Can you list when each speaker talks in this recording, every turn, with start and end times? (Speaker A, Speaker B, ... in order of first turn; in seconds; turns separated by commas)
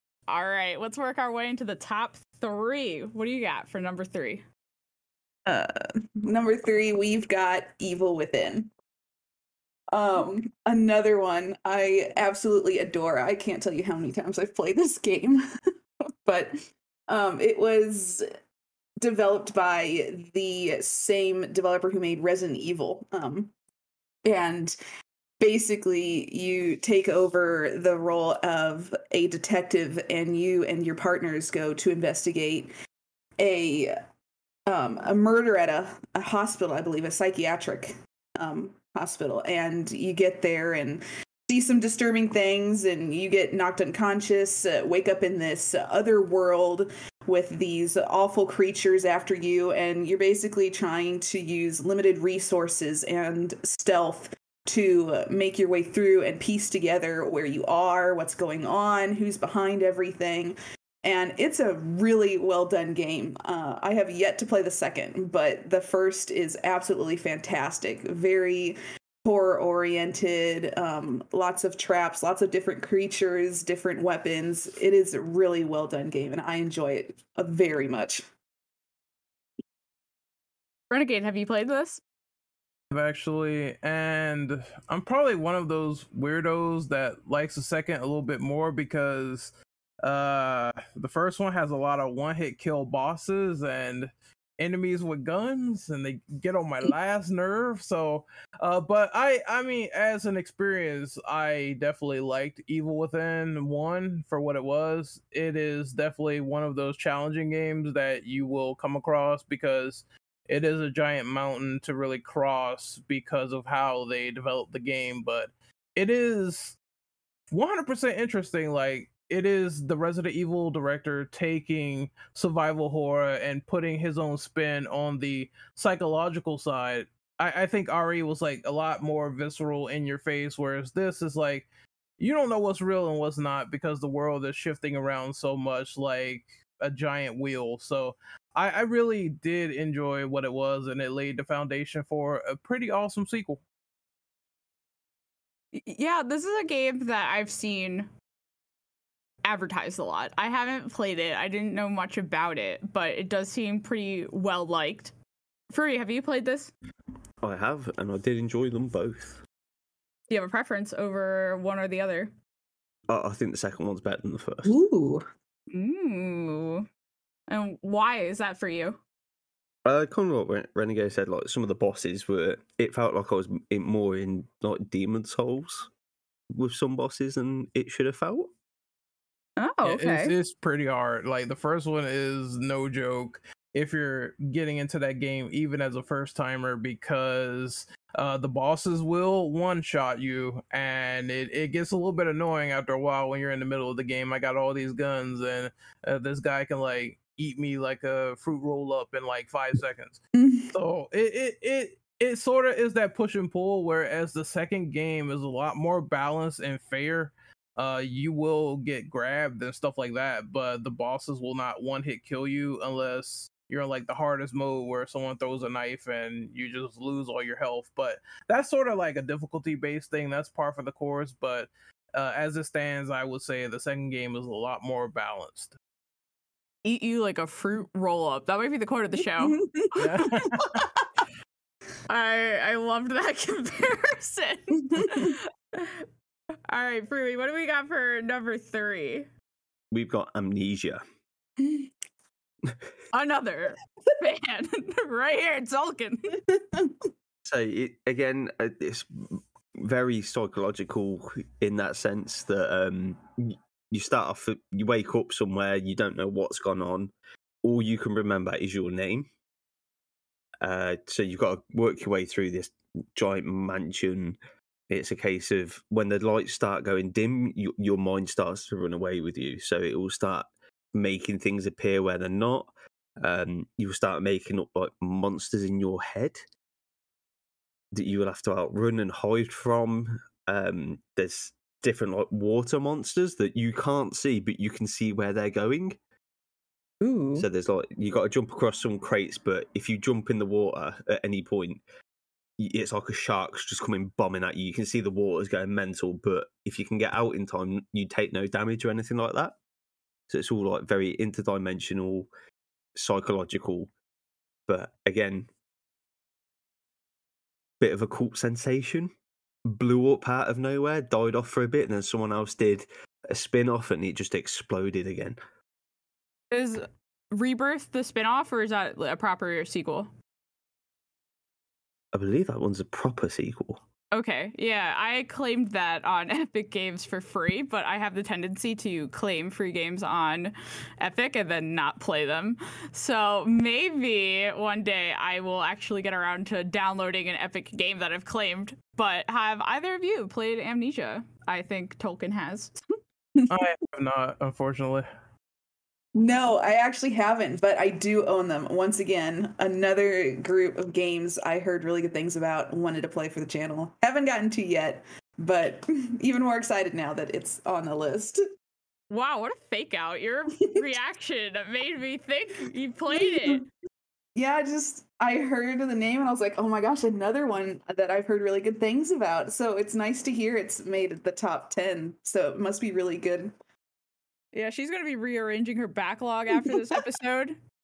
Speaker A: 0.3-4.4, Speaker B: 5.5-8.7, Speaker B: 9.9-15.4, Speaker B: 16.2-16.5, Speaker B: 17.1-18.2, Speaker B: 19.0-23.5, Speaker B: 24.2-24.8, Speaker B: 25.4-32.7, Speaker B: 33.4-34.0, Speaker B: 34.7-78.2, Speaker A: 80.9-82.0, Speaker C: 82.9-116.8, Speaker C: 117.5-131.7, Speaker C: 132.2-143.6, Speaker A: 145.7-148.1, Speaker A: 149.4-155.1, Speaker A: 155.7-156.7, Speaker D: 157.4-159.4, Speaker A: 160.3-162.3, Speaker D: 163.1-164.8, Speaker B: 164.6-165.2, Speaker A: 165.7-166.8, Speaker A: 167.5-169.0, Speaker D: 169.8-175.9, Speaker D: 176.5-178.5, Speaker A: 179.6-180.3, Speaker C: 179.8-225.7, Speaker B: 200.3-200.7, Speaker A: 226.8-229.6, Speaker B: 229.4-231.0, Speaker C: 229.9-230.8, Speaker A: 232.1-236.0, Speaker B: 234.8-235.3, Speaker A: 236.7-239.3, Speaker D: 239.9-241.0, Speaker B: 241.6-241.9, Speaker A: 243.1-246.3, Speaker B: 246.5-246.9, Speaker D: 247.4-257.1, Speaker D: 257.6-259.3, Speaker D: 260.6-264.4, Speaker D: 264.9-276.4, Speaker D: 277.9-286.0, Speaker D: 287.3-291.8, Speaker D: 292.6-299.6, Speaker D: 300.3-302.3, Speaker D: 302.9-303.9, Speaker D: 304.7-305.5, Speaker D: 307.8-309.1, Speaker D: 309.7-315.4, Speaker A: 316.5-320.1, Speaker D: 322.1-323.8, Speaker A: 324.1-342.8, Speaker C: 343.5-345.1, Speaker B: 346.1-358.4, Speaker A: 359.1-363.6, Speaker B: 363.1-363.6, Speaker B: 364.4-373.5, Speaker A: 374.5-377.6